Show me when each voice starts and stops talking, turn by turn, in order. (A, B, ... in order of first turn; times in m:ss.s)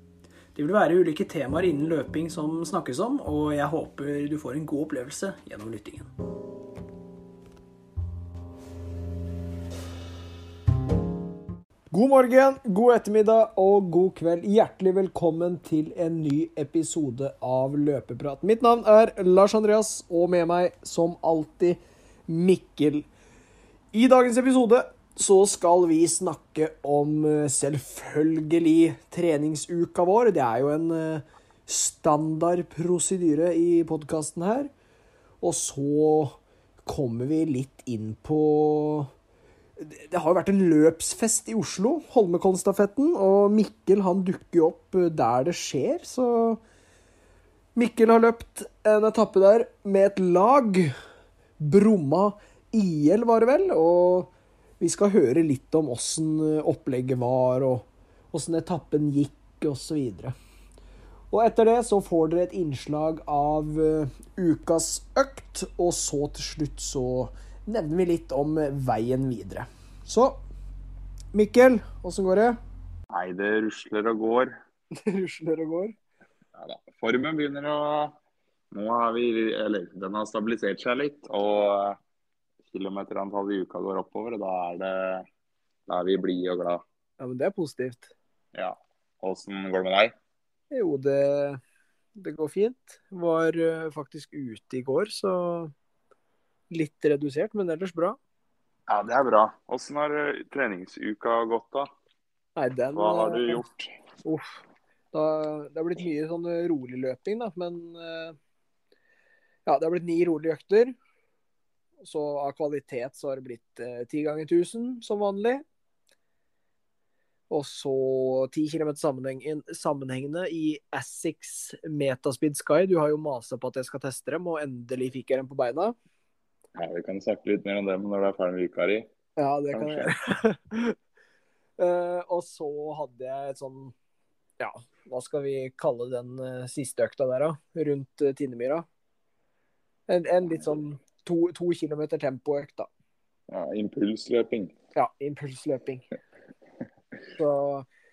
0:00.6-0:06.1 A
0:11.9-0:23.1 A
0:23.9-0:34.7 A
0:35.4-0:39.1 A
0:39.8-0:46.6 A
0:47.8-0:50.9 A
0:51.6-1:00.3 A
1:01.3-1:10.4 A
1:11.3-1:12.6 A
1:13.1-1:14.5 B
1:15.0-1:16.0 A
1:16.6-1:18.2 B
1:18.7-1:22.0 B
1:22.7-1:25.2 B
1:25.9-1:26.8 B
1:27.2-1:28.1 A
1:28.5-1:30.1 B
1:30.7-1:31.6 A
1:32.2-1:35.7 A
1:36.7-1:38.2 A
1:38.9-1:41.9 B
1:42.6-1:43.6 A
1:42.9-1:43.9 B
1:44.2-1:44.6 A
1:45.1-1:48.4 A
1:49.7-1:50.9 A
1:52.0-1:55.6 A
1:57.5-2:06.0 A
2:06.8-2:09.1 B
2:09.4-2:11.0 A
2:09.7-2:10.1 B
2:11.8-2:14.0 A
2:14.6-2:18.8 A
2:20.1-2:22.9 A
2:23.5-2:24.8 B
2:25.0-2:26.1 A
2:27.4-2:27.9 A